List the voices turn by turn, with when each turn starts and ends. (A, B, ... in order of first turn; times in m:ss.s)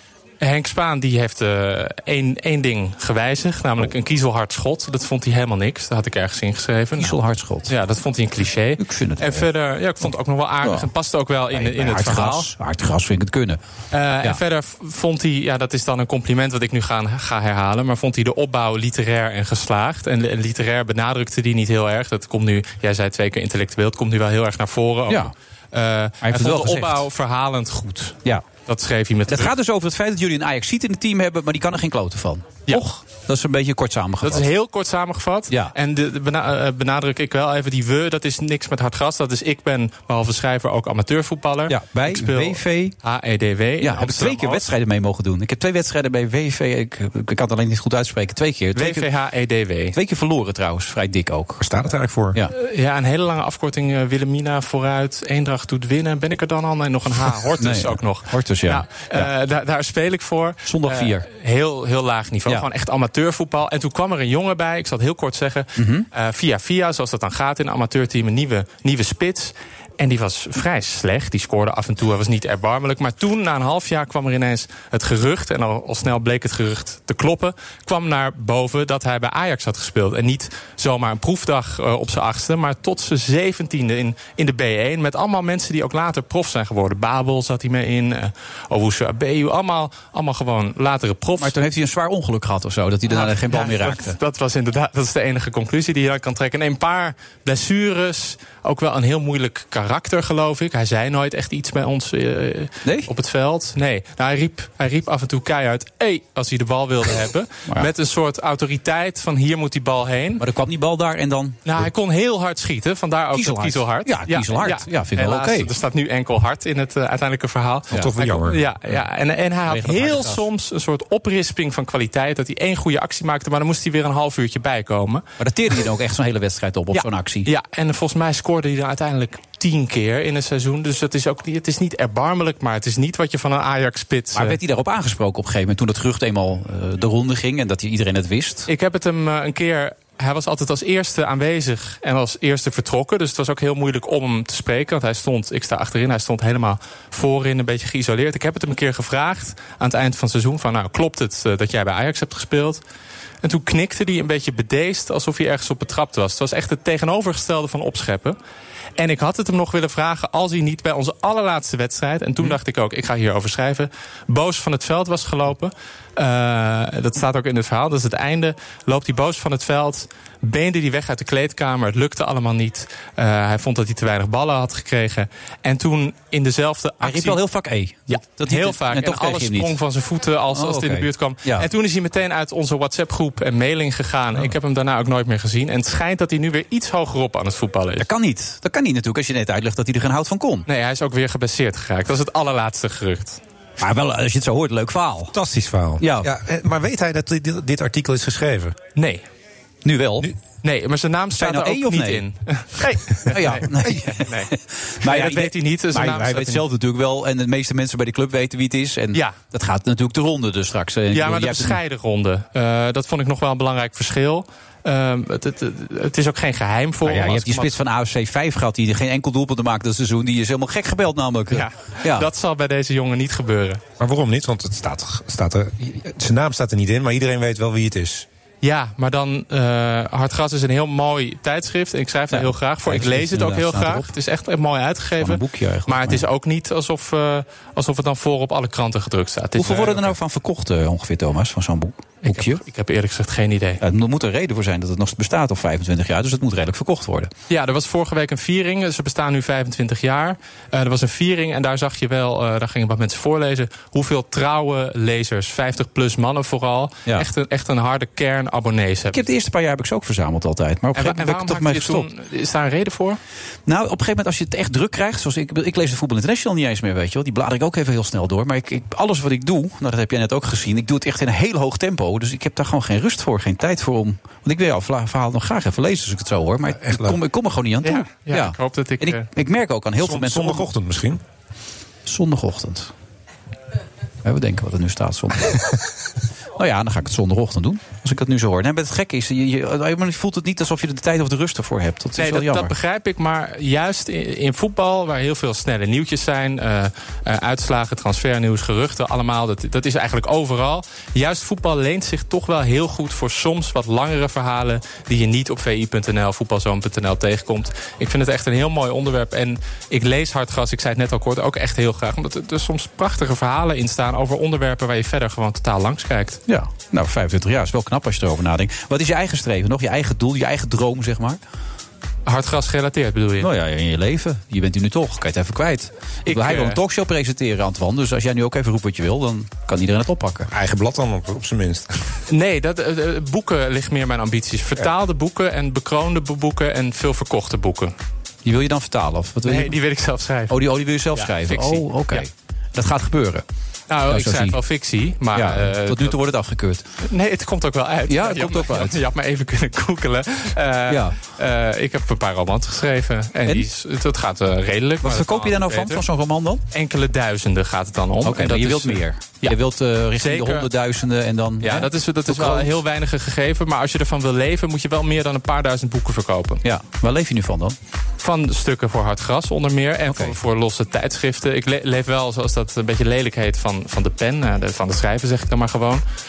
0:00.4-0:07.2 A
0:07.0-0:07.7 B
0:07.7-0:12.5 A
0:08.8-0:09.5 B
0:10.0-0:10.9 B
0:11.5-0:13.6 B
0:13.9-0:29.5 A
0:26.2-0:27.0 B
0:29.3-0:34.5 B
0:34.2-0:44.6 A
0:41.7-0:43.0 B
0:43.8-0:49.1 B
0:48.8-0:50.0 A
0:49.9-0:51.6 B
0:51.6-0:52.4 C
0:52.5-1:31.5 A
0:57.6-0:59.3 B
1:00.6-1:01.2 B
1:05.8-1:06.1 B
1:31.4-1:34.2 B
1:33.1-1:50.4 A
1:42.8-1:43.1 B
1:50.4-1:51.9 B
1:51.6-2:05.2 A
1:53.3-1:55.7 B
1:57.9-1:58.6 C
1:59.6-2:00.4 B
2:05.4-2:07.5 B
2:06.9-2:14.6 A
2:14.3-2:18.7 B
2:18.7-2:32.8 A
2:33.4-2:38.4 A
2:39.0-2:57.4 A
2:57.0-2:59.8 B
2:58.1-3:08.0 A
3:00.5-3:01.7 B
3:08.0-3:10.7 B
3:10.7-3:13.4 A
3:13.8-3:15.3 B
3:15.3-3:18.8 C
3:16.0-3:16.3 B
3:19.0-3:19.2 A
3:19.8-3:20.3 B
3:20.6-3:24.5 A
3:21.4-3:22.2 B
3:22.8-3:31.8 B
3:25.0-3:26.6 A
3:31.1-3:37.7 A
3:37.0-3:42.3 B
3:41.5-3:43.8 A
3:44.0-3:48.2 C
3:48.6-4:00.1 A
3:52.3-3:54.1 B
3:55.2-3:56.2 B
3:59.6-4:02.6 B
4:02.2-4:03.8 A
4:03.8-4:07.3 B
4:07.5-4:19.2 A
4:19.1-4:22.1 B
4:21.0-4:23.2 A
4:23.7-4:40.7 B
4:36.8-4:37.2 C
4:37.8-4:39.2 A
4:40.0-4:41.2 C
4:42.0-4:42.9 B
4:44.2-4:45.8 B
4:46.6-4:52.7 B
4:52.2-5:16.4 A
5:16.5-5:21.4 B
5:22.2-5:23.5 A
5:23.4-5:30.5 B
5:26.3-5:26.8 A
5:30.5-5:31.9 C
5:32.3-5:37.9 A
5:38.4-5:39.8 B
5:39.4-5:40.5 A
5:40.5-5:43.4 B
5:41.1-5:42.3 A
5:43.9-5:46.1 A
5:44.1-5:44.6 B
5:45.3-5:46.8 B
5:47.0-5:56.0 A
5:48.1-5:49.0 B
5:50.9-5:51.2 B
5:55.0-5:56.6 B
5:56.7-5:59.6 A
5:58.2-6:02.8 B
6:00.2-6:00.7 A
6:01.6-6:06.6 A
6:06.6-6:07.8 B
6:08.2-6:16.0 A
6:10.1-6:10.4 B